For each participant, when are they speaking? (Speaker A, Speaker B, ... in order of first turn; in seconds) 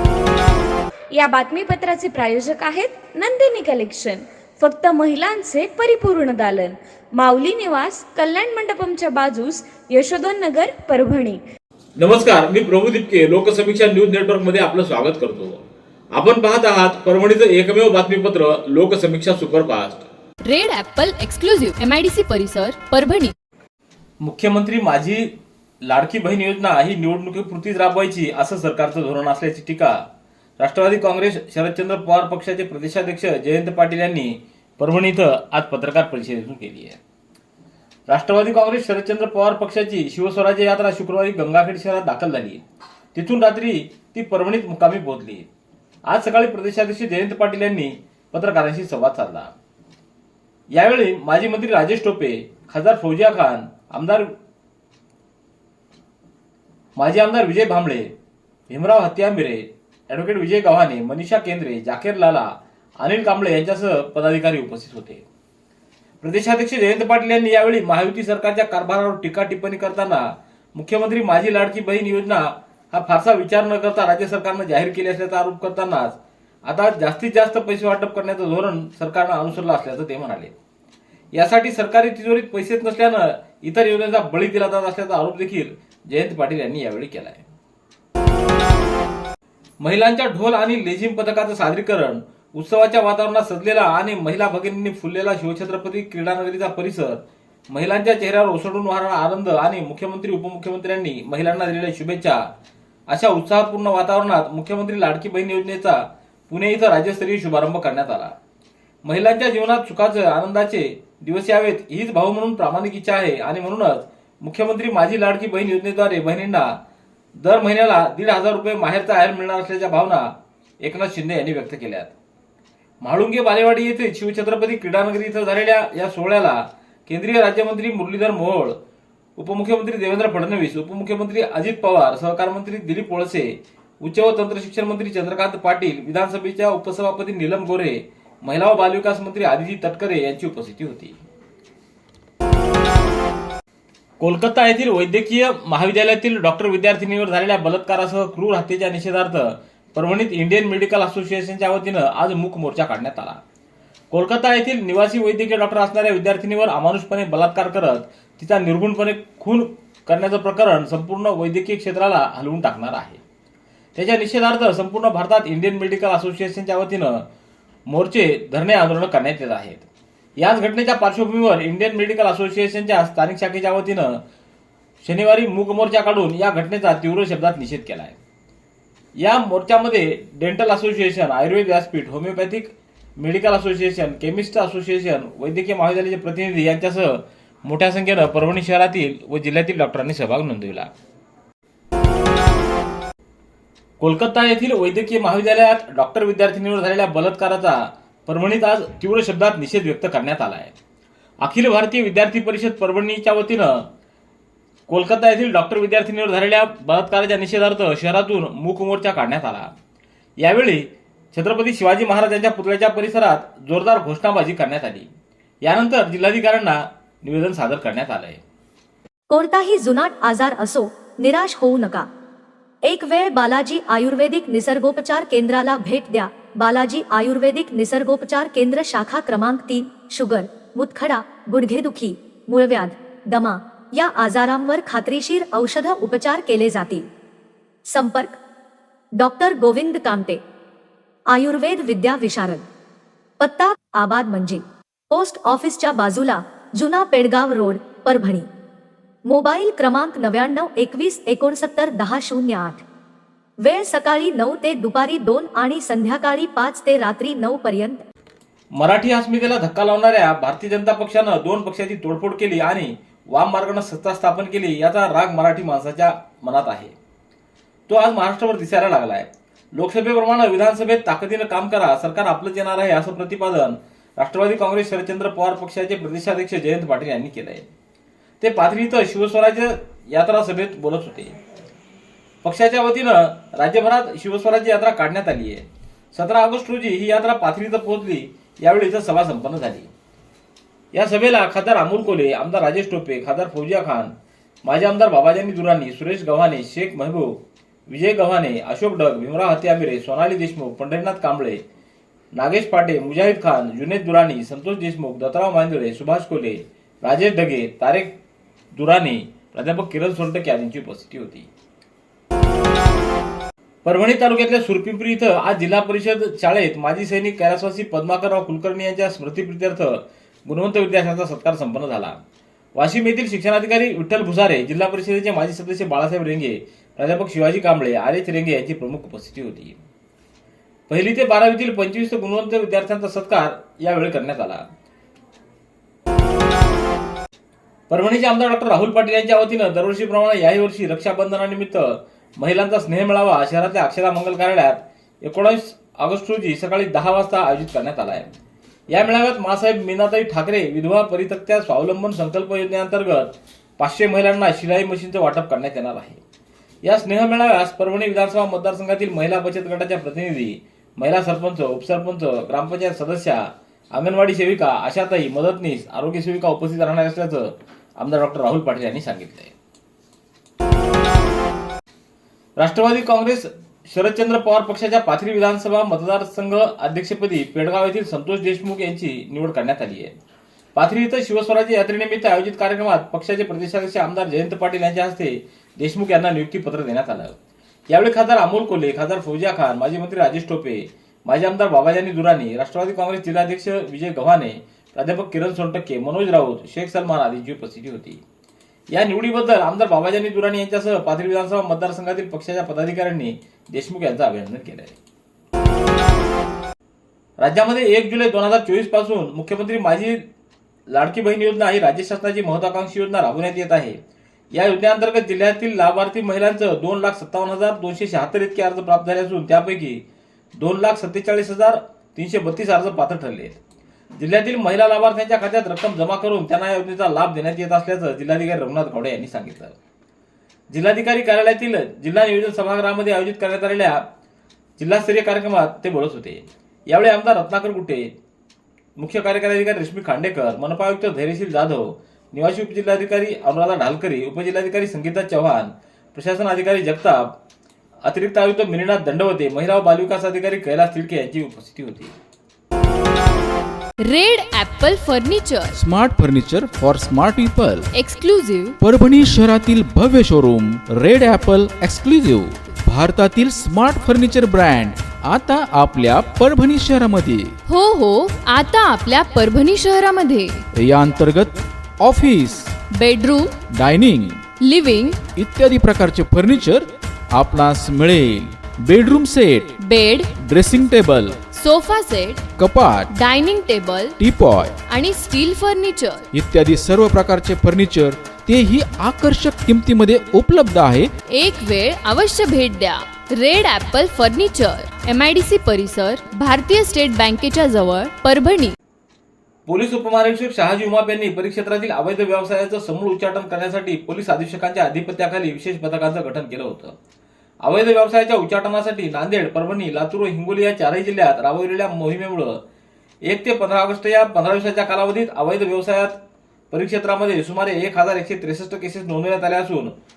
Speaker A: 1.1-11.4
Speaker B: 12.0-15.6, 16.1-20.0, 24.2-25.3, 25.8-29.9, 30.6-37.0, 38.1-42.6, 43.1-45.5, 46.1-49.5, 50.7-54.3, 57.0-58.1, 58.7-65.2, 66.2-80.5, 81.3-87.4, 89.8-102.5, 103.1-108.3, 109.0-116.8, 117.4-120.3, 120.8-122.1, 123.0-128.8, 129.4-141.2, 144.2-153.4, 154.1-163.2, 163.9-167.2, 167.9-169.8, 170.4-174.2, 175.0-178.2, 179.2-190.9, 194.0-200.7, 201.4-203.9, 204.9-209.7, 210.4-215.1, 215.6-218.4, 258.7-266.9, 267.9-277.7, 278.4-281.3, 282.4-289.9, 290.9-294.1, 294.6-301.6, 302.3-308.1, 308.7-311.5, 313.8-322.2, 322.7-329.8, 330.9-334.6, 337.9-348.3, 348.9-356.2, 356.8-369.5, 372.6-380.1, 380.7-387.3, 387.9-398.2, 398.9-404.9, 407.4-410.2, 410.9-414.0, 414.5-420.0, 420.6-423.6, 424.2-429.7, 430.7-434.0, 434.8-438.1, 439.0-447.3, 448.0-452.1, 499.7-506.9, 507.6-512.6, 513.2-516.2, 516.7-519.9
Speaker C: 20.4-23.3, 454.0-455.7, 457.9-458.8, 467.7-470.6, 472.9-473.6, 474.6-475.2, 479.8-480.3, 481.5-482.4, 483.1-484.2, 484.9-486.2, 491.3-498.8
Speaker D: 219.3-222.1, 222.8-237.1, 237.9-238.4, 239.2-240.4, 241.3-242.7, 243.4-248.5, 249.2-252.8, 253.6-258.0
Speaker E: 455.7-457.9, 458.8-467.5, 470.7-472.7, 473.7-474.4, 475.3-479.7, 480.4-481.4, 482.6-483.1, 484.2-484.7, 486.3-491.1